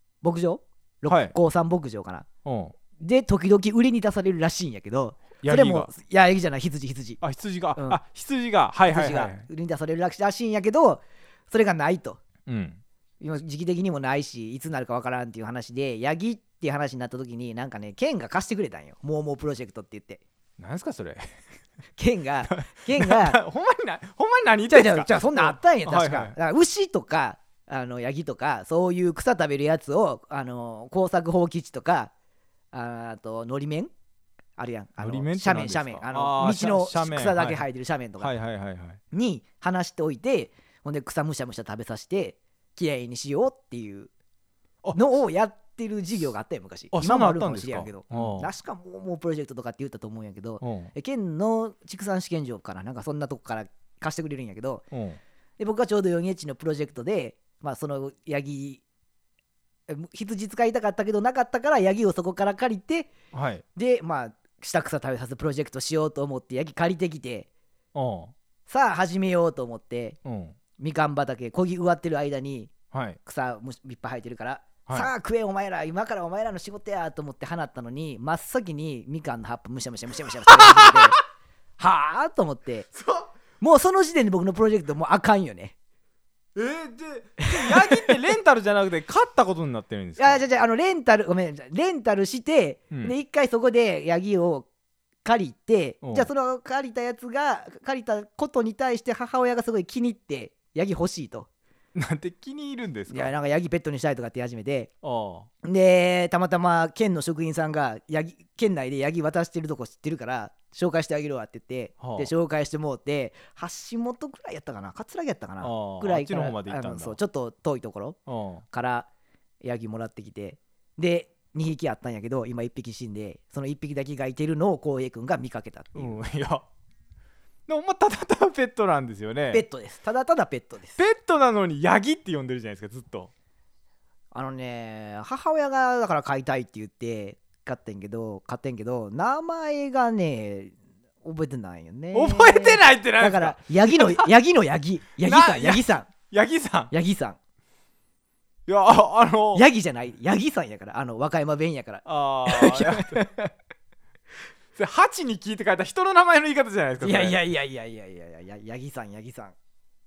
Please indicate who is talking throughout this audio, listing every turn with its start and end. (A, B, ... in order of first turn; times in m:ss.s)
0:00.2-0:02.2 A
0:01.0-0:01.3 B
0:02.4-0:02.7 B
0:03.0-0:07.2 A
0:05.4-0:05.9 B
0:07.2-0:09.5 B
0:07.8-0:08.0 A
0:08.8-0:12.2 A
0:12.5-0:12.8 B
0:13.2-0:20.2 A
0:20.6-0:21.3 B
0:22.0-0:23.4 A
0:22.5-0:26.4 B
0:24.7-0:32.1 A
0:32.7-0:33.9 A
0:34.6-0:38.3 A
0:35.0-0:37.6 B
0:38.2-0:39.0 B
0:39.1-0:44.1 A
0:44.8-0:45.2 B
0:44.9-0:54.8 A
0:46.9-0:48.5 B
0:50.6-0:50.9 B
0:54.9-0:55.2 B
0:55.6-0:58.8 A
0:59.9-1:03.1 A
1:03.3-1:03.6 B
1:03.7-1:07.5 A
1:07.9-1:08.3 B
1:08.7-1:10.2 A
1:10.2-1:10.6 B
1:10.8-1:12.7 A
1:12.9-1:13.2 B
1:13.2-1:21.2 A
1:14.8-1:15.1 B
1:20.3-1:21.1 B
1:21.8-1:22.9 A
1:22.9-1:23.3 B
1:23.6-1:25.7 A
1:26.5-1:30.4 B
1:27.4-1:28.1 A
1:30.2-1:34.7 A
1:35.2-1:41.5 A
1:36.0-1:36.3 B
1:41.9-1:43.3 B
1:43.1-1:44.9 A
1:45.0-1:45.5 B
1:45.6-1:58.2 A
1:52.0-1:52.3 B
1:55.6-1:57.2 B
1:58.3-1:58.6 B
1:58.7-1:59.1 A
1:59.6-2:06.2 A
2:05.9-2:06.6 B
2:07.7-2:09.6 B
2:09.5-2:11.0 A
2:11.0-2:13.3 B
2:14.3-2:26.1 A
2:22.1-2:24.3 B
2:25.2-2:26.9 B
2:26.9-2:27.4 A
2:28.7-2:29.6 B
2:29.5-2:33.5 A
2:32.0-2:33.2 B
2:34.8-2:37.4 B
2:37.0-2:39.5 A